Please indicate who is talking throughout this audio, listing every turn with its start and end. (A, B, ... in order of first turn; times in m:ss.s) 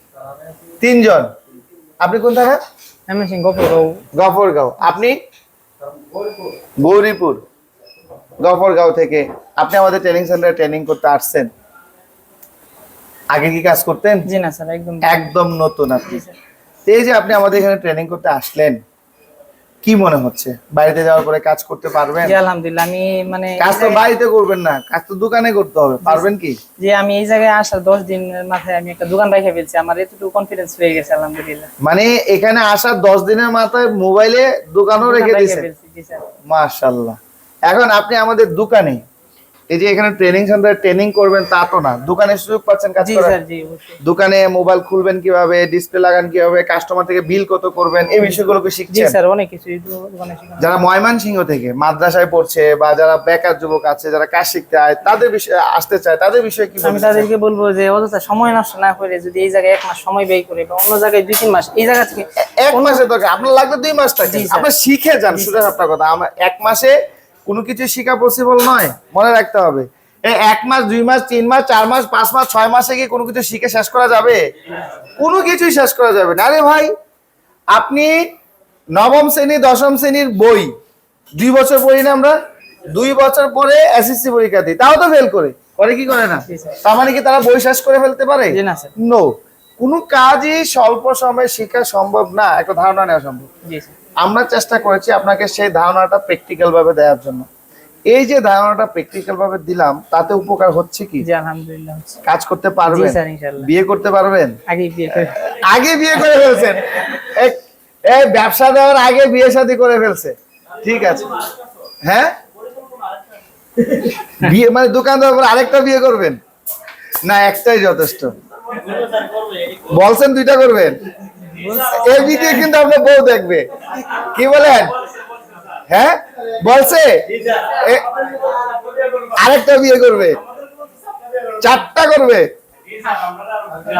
0:00.8-0:01.3 A
0:02.0-0:02.6 A
0:03.1-0:04.0 B
0:04.1-0:05.2 A
0:06.8-0:07.4 A
0:08.4-0:11.5 A
0:13.3-0:14.3 A
0:14.2-0:15.3 B
0:15.0-0:16.2 A
0:16.1-0:16.4 B
0:16.8-0:18.8 A
0:19.8-0:22.4 A
0:22.2-0:24.0 B
0:23.6-0:26.6 A
0:26.0-0:31.7 B
0:31.8-0:35.7 A
0:35.0-0:36.3 B
0:36.5-0:39.0 A
0:39.7-0:43.4 A
0:43.0-0:44.0 B
0:44.0-0:49.2 A
0:48.9-0:50.7 B
0:50.6-0:57.3 A
0:56.8-1:03.0 B
1:02.4-1:14.4 A
1:04.2-1:04.7 B
1:05.3-1:05.6 B
1:15.2-1:16.9 A
1:17.7-1:18.2 A
1:18.9-1:20.7 A
1:21.3-1:22.4 A
1:22.9-1:33.5 A
1:26.4-1:26.8 B
1:28.5-1:28.9 B
1:33.6-1:33.9 B
1:34.2-1:37.4 A
1:38.1-1:41.2 A
1:41.2-1:42.2 B
1:42.2-1:44.6 A
1:42.9-1:43.7 B
1:44.7-1:45.4 B
1:45.2-1:51.5 A
1:52.0-1:52.4 A
1:54.0-1:56.4 A
1:57.2-1:58.4 A
1:59.8-2:01.0 A
2:01.5-2:02.7 B
2:01.7-2:05.0 A
2:05.9-2:08.4 A
2:09.2-2:10.4 A
2:11.6-2:12.5 A